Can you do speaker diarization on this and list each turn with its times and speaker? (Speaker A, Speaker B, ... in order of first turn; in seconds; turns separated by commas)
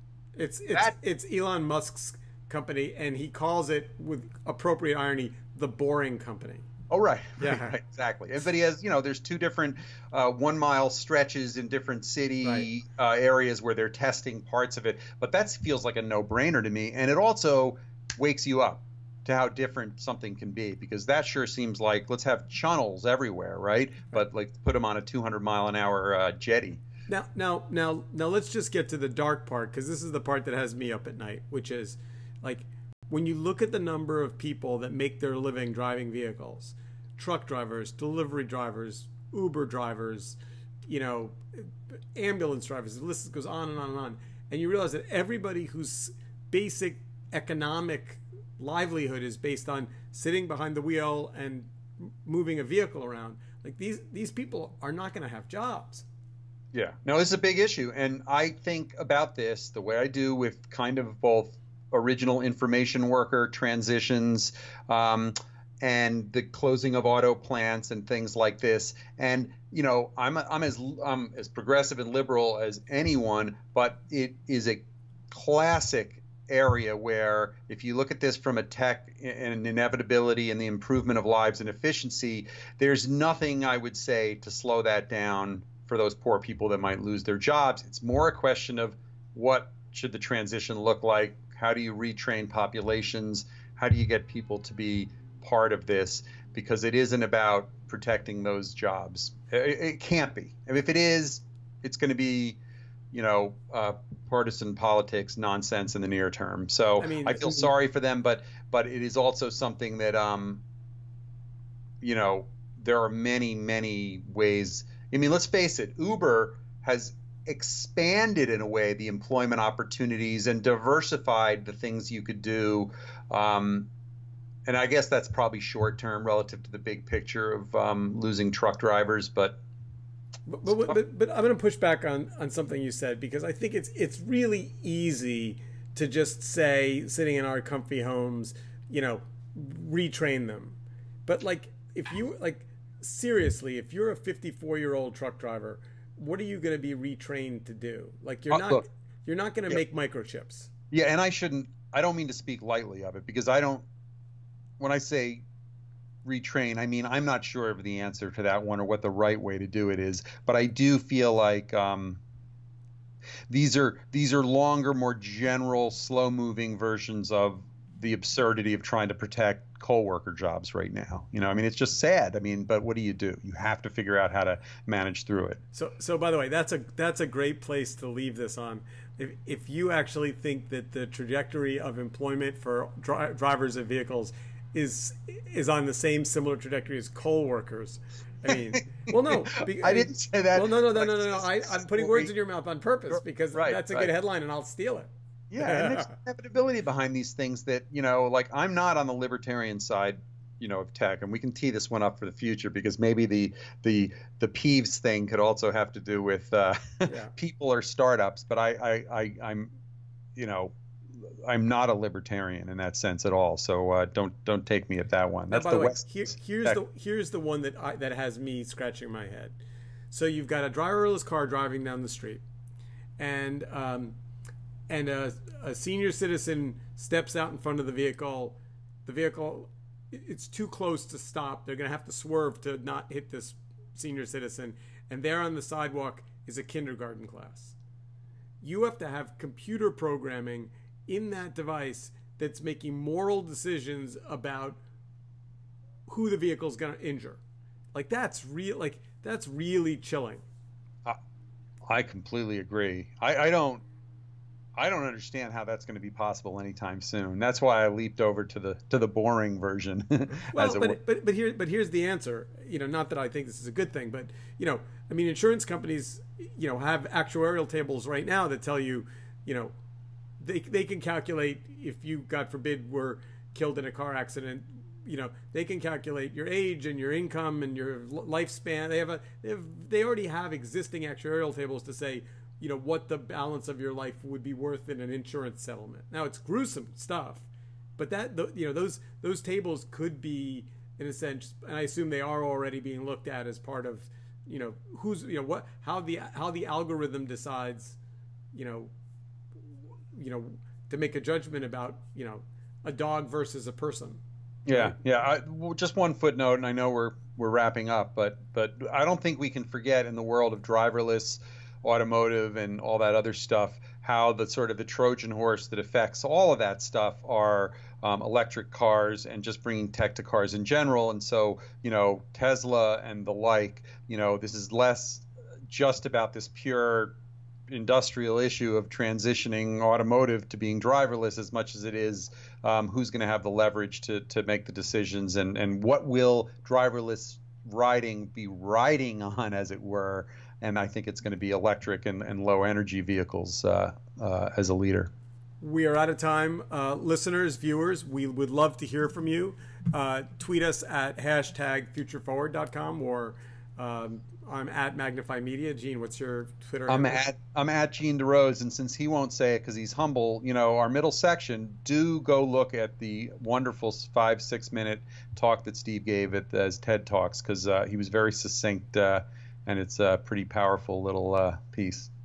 Speaker A: 0.4-6.7, Speaker B: 6.9-26.8, Speaker A: 7.4-7.8, Speaker A: 12.4-12.7, Speaker A: 27.1-56.0, Speaker B: 56.7-102.6, Speaker B: 103.1-110.6, Speaker A: 107.0-107.7, Speaker B: 112.0-123.9, Speaker B: 124.7-129.6, Speaker A: 130.5-150.7, Speaker B: 130.7-131.0, Speaker B: 148.5-148.8, Speaker B: 150.9-153.9, Speaker B: 154.8-155.4, Speaker B: 156.2-162.2, Speaker B: 163.5-175.6, Speaker A: 175.7-196.2, Speaker B: 188.5-192.3, Speaker B: 193.1-194.1, Speaker B: 195.5-209.7, Speaker A: 207.1-207.3, Speaker B: 210.4-216.8, Speaker A: 215.5-219.6, Speaker A: 220.1-222.4, Speaker A: 223.2-224.2, Speaker A: 224.9-237.8, Speaker A: 238.6-244.8, Speaker A: 246.1-247.4, Speaker A: 247.9-250.4, Speaker B: 251.9-253.8, Speaker B: 254.8-261.0, Speaker A: 260.5-269.7, Speaker A: 270.4-298.0, Speaker A: 298.5-298.9, Speaker A: 300.1-305.0, Speaker B: 304.7-327.1, Speaker B: 327.7-345.1, Speaker A: 345.6-357.2, Speaker B: 356.9-372.1